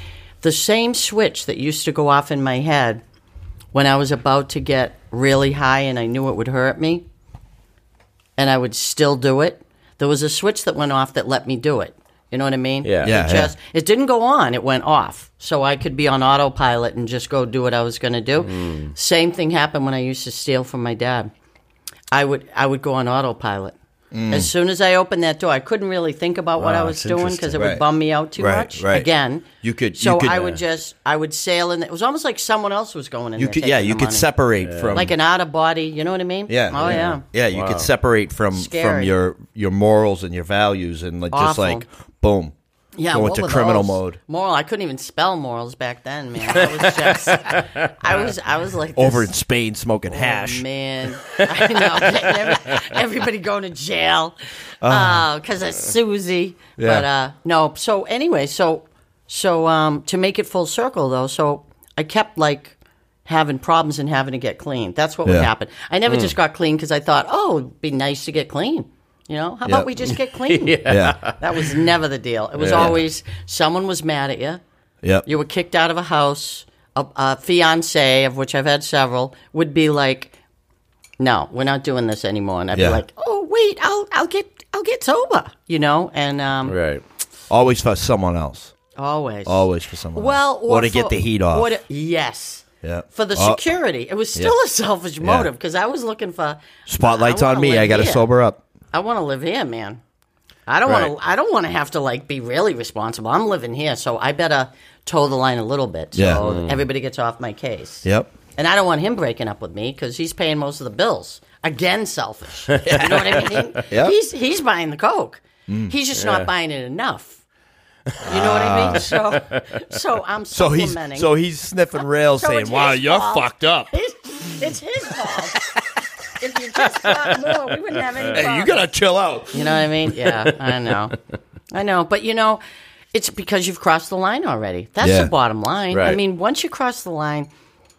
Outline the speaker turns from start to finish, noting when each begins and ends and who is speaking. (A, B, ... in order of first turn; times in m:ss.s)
0:00.4-0:03.0 A
0:03.7-0:07.0 A
0:08.4-0:21.3 A
0:12.8-0:13.1 B
0:13.0-0:13.5 C
0:18.4-0:18.9 B
0:22.1-0:23.7 A
0:24.1-0:24.5 C
0:24.3-0:34.3 A
0:26.6-0:27.7 B
0:27.5-0:27.8 C
0:28.4-0:29.1 C
0:29.6-0:30.6 C
0:33.4-0:35.1 C
0:34.6-0:35.1 B
0:34.9-0:37.2 A
0:36.5-0:42.5 C
0:36.8-0:37.9 B
0:38.5-0:39.1 A
0:41.3-0:41.8 A
0:43.0-0:49.3 A
0:43.1-0:44.2 C
0:46.5-0:48.2 B
0:49.0-0:50.6 C
0:50.1-1:14.6 A
0:51.3-0:52.8 B
0:54.8-0:55.3 C
0:56.8-0:57.1 C
1:05.2-1:05.5 C
1:06.1-1:06.3 B
1:09.6-1:09.9 C
1:10.1-1:11.8 B
1:10.8-1:11.2 C
1:12.6-1:13.0 B
1:15.2-1:20.3 A
1:21.2-1:26.8 A
1:22.7-1:23.0 C
1:26.6-1:27.0 B
1:27.5-1:28.7 C
1:29.0-1:38.3 A
1:29.4-1:31.8 C
1:32.8-1:33.6 C
1:35.2-1:35.5 C
1:36.9-1:38.6 C
1:38.9-1:40.0 A
1:40.7-1:48.0 A
1:46.1-1:46.4 C
1:46.4-1:46.8 B
1:48.0-1:48.3 C
1:48.6-1:57.4 A
1:52.7-1:53.8 B
1:53.9-1:54.2 C
1:55.7-1:55.9 C
1:56.1-1:56.5 B
1:58.2-2:01.3 A
1:58.2-1:59.1 C
1:58.9-1:59.8 B
2:00.5-2:03.9 C
2:02.4-2:05.7 A
2:06.4-2:08.9 A
2:06.7-2:08.3 B
2:08.3-2:09.8 C
2:09.5-2:11.1 A
2:10.0-2:11.2 B
2:11.7-2:12.6 A
2:13.1-2:17.5 A
2:15.0-2:15.3 C
2:15.9-2:16.2 B